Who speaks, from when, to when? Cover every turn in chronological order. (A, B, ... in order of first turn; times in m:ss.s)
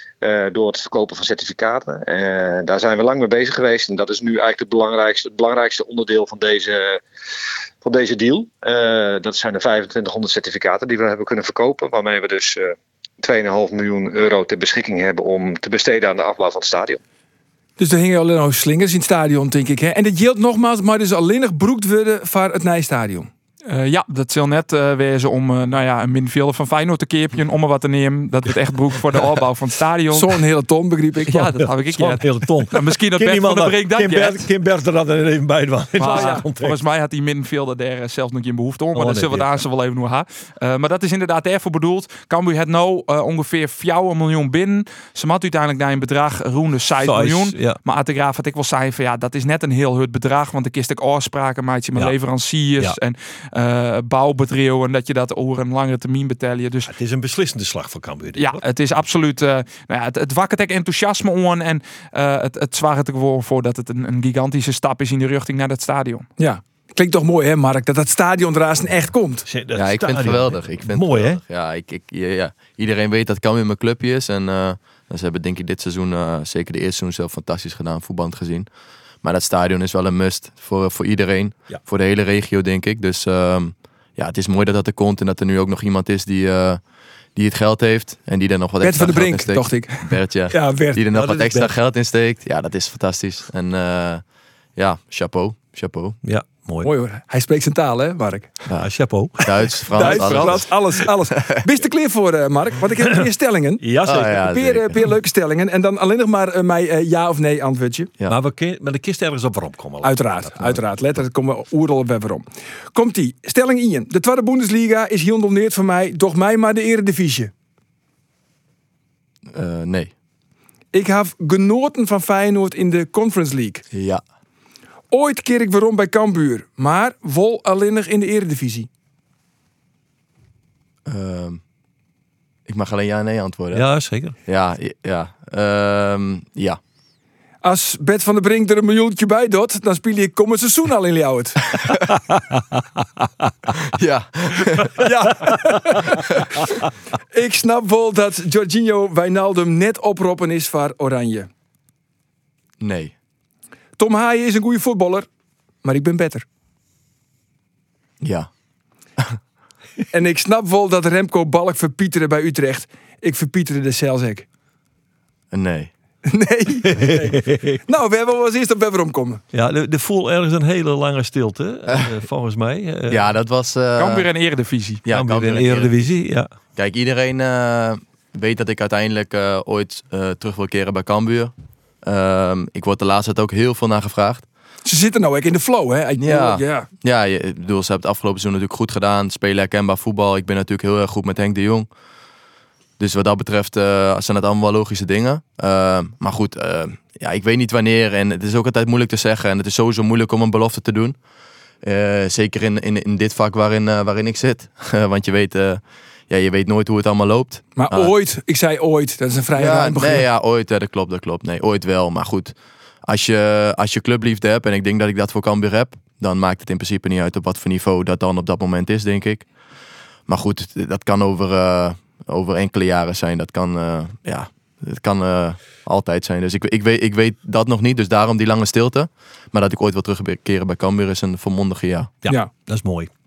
0:00.2-0:07.0 A
0:07.8-0:17.0 A
0:17.8-0:23.3 B
0:23.7-0:30.4 C
0:30.1-0:31.4 B
0:31.3-0:34.5 C
0:31.3-0:36.8 D
0:36.0-0:56.9 C
0:36.0-0:36.4 B
0:39.0-0:39.6 D
0:47.0-0:47.8 D
0:56.9-0:58.6 D
0:58.4-1:06.3 C
1:06.4-1:09.5 B
1:09.5-1:11.4 D
1:09.8-1:18.7 E
1:19.2-1:26.8 E
1:27.4-1:34.2 E
1:28.8-1:31.0 B
1:31.1-1:31.7 D
1:34.8-1:36.2 E
1:36.2-1:36.9 D
1:36.8-1:38.5 B
1:38.7-1:40.7 E
1:38.8-1:40.7 D
1:39.9-1:48.1 B
1:43.8-1:44.4 D
1:44.0-1:45.0 E
1:48.3-1:50.8 D
1:50.0-1:57.5 B
1:59.5-2:00.1 E
2:00.9-2:03.8 B
2:03.9-2:04.2 E
2:05.1-2:08.9 B
2:11.1-2:11.6 E
2:12.7-2:13.9 E
2:13.7-2:14.4 D
2:14.4-2:16.8 E
2:17.6-2:21.7 B
2:23.9-2:24.9 E
2:25.0-2:26.7 B
2:27.3-2:31.5 B
2:32.8-2:33.1 E
2:34.0-2:35.3 B
2:35.8-2:36.5 B
2:38.2-2:38.5 E
2:40.1-2:44.5 B
2:45.5-2:45.9 E
2:46.3-2:49.4 B
2:46.9-2:47.8 D
2:49.5-2:53.2 D
2:53.1-2:54.3 E
2:54.0-2:55.0 C
2:55.0-2:55.9 E
2:55.1-2:56.5 D
2:56.8-3:04.5 E
3:04.8-3:06.9 B
3:06.2-3:11.9 E
3:13.0-3:21.2 E
3:21.8-3:28.1 E
3:27.8-3:30.3 B
3:29.6-3:39.5 E
3:40.3-3:52.1 E
3:52.2-3:53.1 D